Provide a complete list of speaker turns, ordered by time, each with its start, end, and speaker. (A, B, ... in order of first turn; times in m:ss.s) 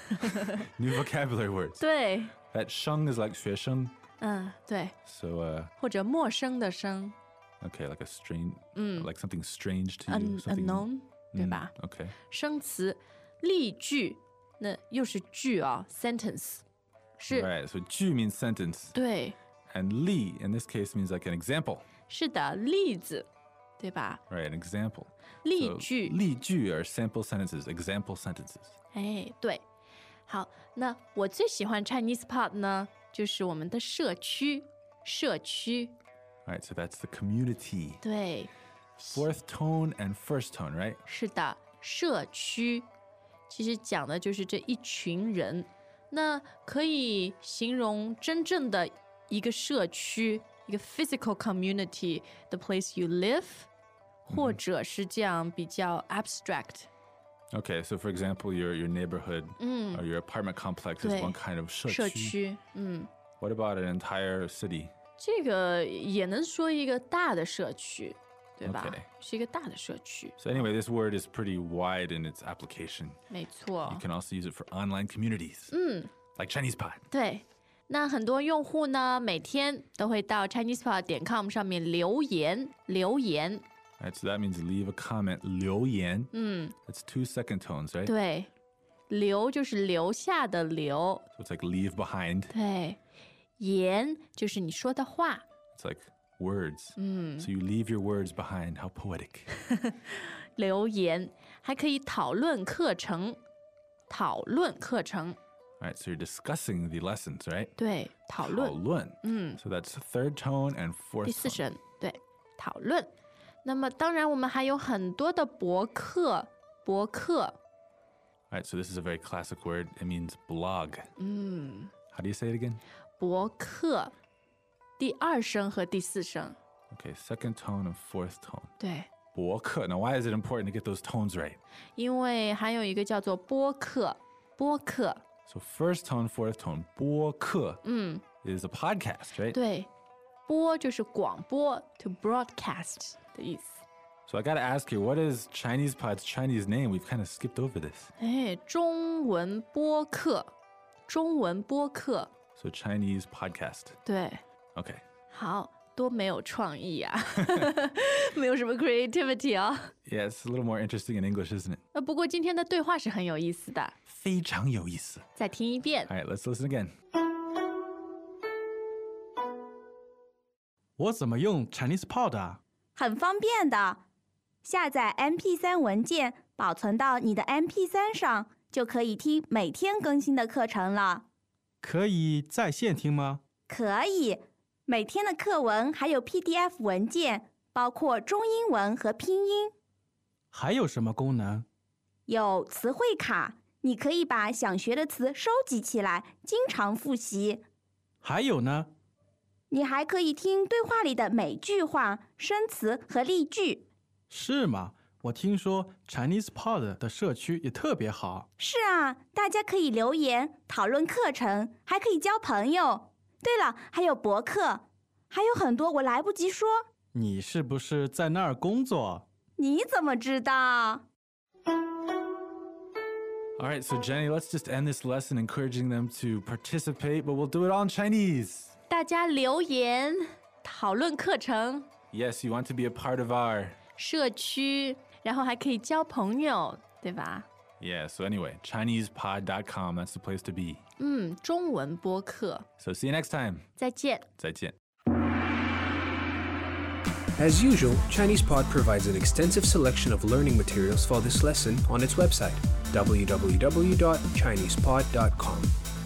0:00.2-0:00.6 A
0:00.5-0:01.8 B
0:01.8-0:02.3 A
0:02.5-0:04.0 B
0:04.2-0:04.9 A
0:05.0-0:05.7 B
0:05.8-0:07.2 A
0:07.6-0:12.2 B
0:08.7-0:09.1 A
0:10.1-0:11.7 A
0:12.3-0:16.6 A
0:17.2-0:17.5 A
0:17.3-0:19.0 B
0:18.9-0:19.4 A
0:19.7-0:21.8 B
0:22.1-0:23.3 A
0:23.8-0:24.2 A
0:24.3-0:28.7 B
0:25.4-0:26.2 A
0:28.9-0:29.6 A
0:30.3-0:35.9 A
0:36.4-0:38.0 B
0:38.0-0:38.5 A
0:39.0-0:41.0 B
0:41.0-0:42.9 A
0:43.5-0:53.7 A
0:54.2-0:56.9 A
0:54.3-0:54.6 B
0:57.5-1:02.4 B
0:59.6-1:00.0 A
1:01.0-1:01.4 A
1:01.9-1:03.1 A
1:03.4-1:04.9 B
1:05.2-1:10.4 A
1:08.6-1:09.1 B
1:10.4-1:13.2 B
1:13.3-1:14.0 A
1:13.8-1:15.7 B
1:15.7-1:16.1 A
1:16.4-1:17.0 B
1:17.1-1:23.6 A
1:24.0-1:26.3 B
1:26.3-1:26.7 A
1:26.8-1:28.1 B
1:28.0-1:28.5 A
1:29.1-1:31.2 A
1:31.3-1:32.5 B
1:32.5-1:33.0 A
1:33.6-1:35.4 A
1:35.7-1:39.5 B
1:37.0-1:37.5 A
1:39.9-1:43.4 A
1:44.1-1:45.4 A
1:45.8-1:47.7 B
1:47.8-1:49.6 A
1:48.4-1:51.6 B
1:51.2-1:53.1 A
1:53.6-1:57.6 A
1:58.5-2:01.1 B
2:01.2-2:01.9 A
2:02.1-2:02.8 B
2:03.2-2:04.1 A
2:05.0-2:06.6 A
2:06.9-2:08.7 B
2:08.8-2:09.1 A
2:09.3-2:11.6 B
2:12.0-2:15.2 A
2:15.4-2:17.8 B
2:17.8-2:18.2 A
2:18.4-2:19.6 B
2:19.5-2:19.9 A
2:20.5-2:23.8 A
2:24.3-2:28.1 B
2:28.2-2:30.5 A
2:31.1-2:32.3 A
2:32.6-2:34.0 B
2:34.0-2:34.4 A
2:34.7-2:35.0 B
2:35.3-2:39.9 A
2:40.0-2:41.8 B
2:41.9-2:44.0 A
2:44.1-2:45.3 B
2:45.4-2:46.1 A
2:46.1-2:46.9 B
2:51.0-2:52.6 C
2:53.0-2:54.0 D
2:54.6-3:01.2 D
3:01.8-3:03.4 C
3:03.7-3:09.7 D
3:10.5-3:11.6 C
3:12.3-3:17.6 D
3:18.2-3:18.9 C
3:19.7-3:23.8 D
3:24.3-3:28.4 C
3:28.6-3:36.8 D
3:37.1-3:39.2 C
3:39.6-3:41.0 D
3:43.6-3:48.7 B
3:48.9-3:51.9 A
3:52.1-3:53.8 B
3:54.0-3:57.5 A
3:57.8-4:00.8 B
4:01.0-4:02.6 A
4:02.8-4:03.7 B
4:03.8-4:04.3 A
4:04.4-4:04.7 B
4:07.4-4:15.7 E